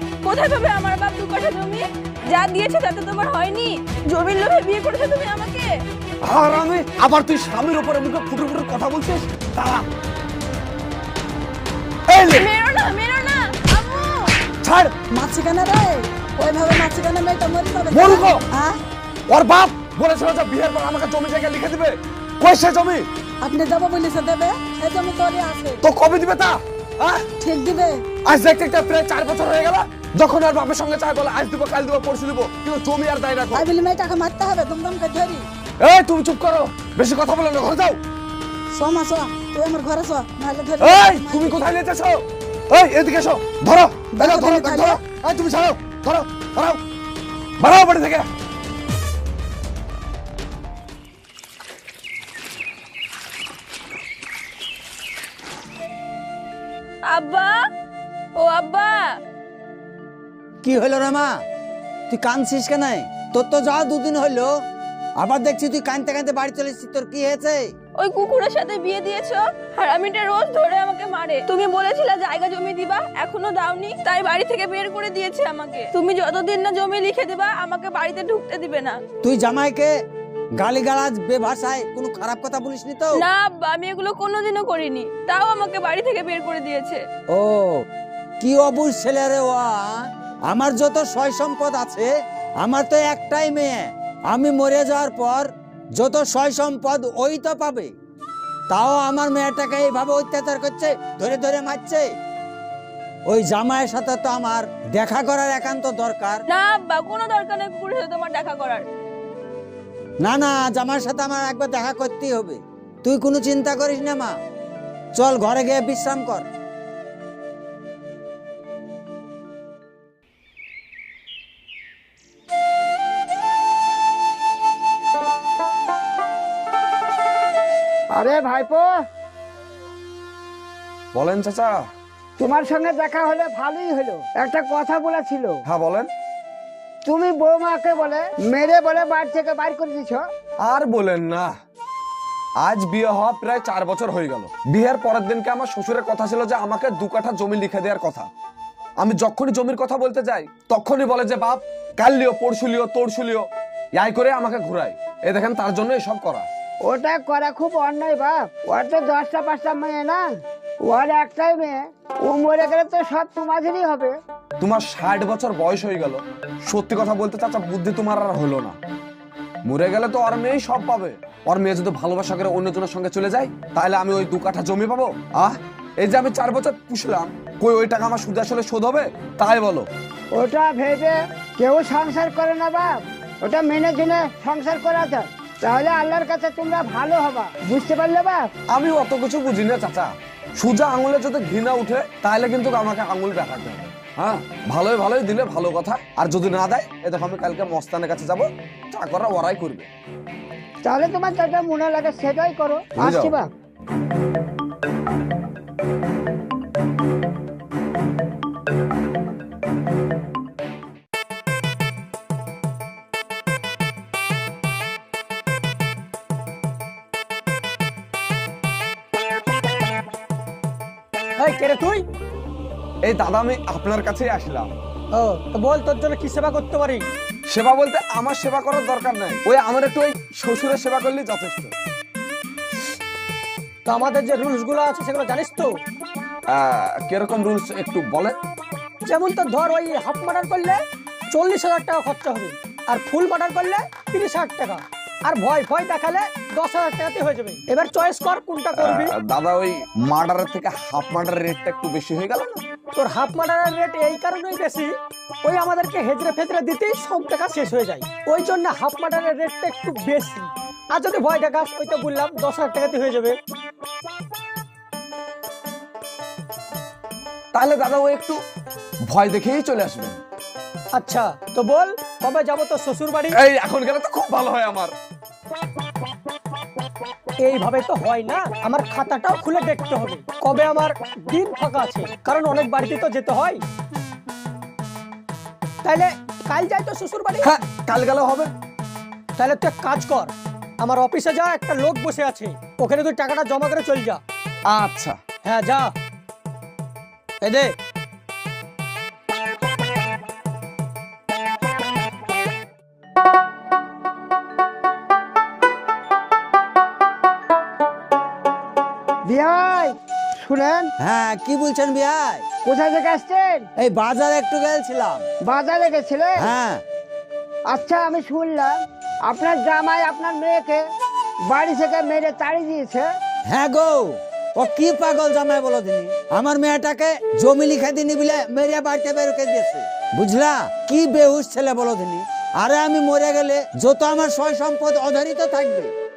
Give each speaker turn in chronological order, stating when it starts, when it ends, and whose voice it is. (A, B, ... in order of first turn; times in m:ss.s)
0:00.2-0:05.7 A
0:06.2-0:09.8 B
0:12.1-0:12.5 B
0:12.2-0:14.4 A
0:14.6-0:15.0 B
0:15.0-0:18.8 C
0:17.9-0:18.5 B
0:19.3-0:23.1 B
0:23.4-0:25.8 C
0:25.8-0:27.3 B
0:27.4-0:28.0 C
0:28.2-0:33.7 B
0:33.5-0:35.5 C
0:35.8-0:38.0 B
0:38.7-0:41.5 C
0:40.8-0:46.8 B
0:44.1-0:45.0 C
0:47.6-0:48.3 B
0:57.1-0:57.5 A
0:58.4-0:59.0 A
1:00.6-1:01.3 D
1:02.1-1:04.5 D
1:05.2-1:07.7 D
1:08.0-1:19.0 A
1:19.2-1:19.9 D
1:20.6-1:23.2 D
1:23.2-1:27.0 A
1:27.3-1:27.8 D
1:28.4-1:32.1 D
1:32.6-1:37.9 D
1:38.7-1:42.1 D
1:43.3-1:46.4 D
1:46.5-1:48.8 A
1:50.2-1:54.3 D
1:55.1-1:56.5 D
2:08.1-2:08.9 E
2:11.1-2:11.8 B
2:12.4-2:15.6 E
2:15.6-2:16.1 B
2:17.0-2:20.2 E
2:20.6-2:21.5 B
2:22.6-2:28.3 B
2:29.0-2:36.5 B
2:36.8-2:40.2 E
2:40.8-2:44.1 E
2:44.6-2:48.8 B
2:49.6-2:59.9 B
3:00.3-3:08.5 E
3:08.7-3:19.9 B
3:20.8-3:23.5 E
3:23.0-3:23.3 B
3:41.4-3:42.0 F
3:43.0-3:44.7 B
3:45.1-3:47.0 F
3:47.5-3:51.7 B
3:53.8-3:55.7 F
3:56.5-3:58.4 B
3:59.0-4:09.1 F
4:08.8-4:12.6 B
4:12.9-4:14.9 F
4:15.4-4:23.4 F
4:27.5-4:28.4 B
4:29.0-4:30.2 B
4:31.0-4:33.4 F
4:33.3-4:34.9 B
4:37.4-4:43.6 F
4:45.8-4:47.5 F
4:47.4-4:48.5 B
4:49.4-4:54.2 F
4:54.7-4:55.2 B
4:55.4-4:55.9 F
4:57.4-4:57.7 F
5:09.3-5:10.9 E
5:11.0-5:12.4 D
5:12.6-5:13.7 E
5:13.8-5:15.2 D
5:15.4-5:16.5 E
5:16.4-5:16.8 D
5:17.7-5:20.8 E
5:21.5-5:23.1 E
5:23.5-5:35.9 D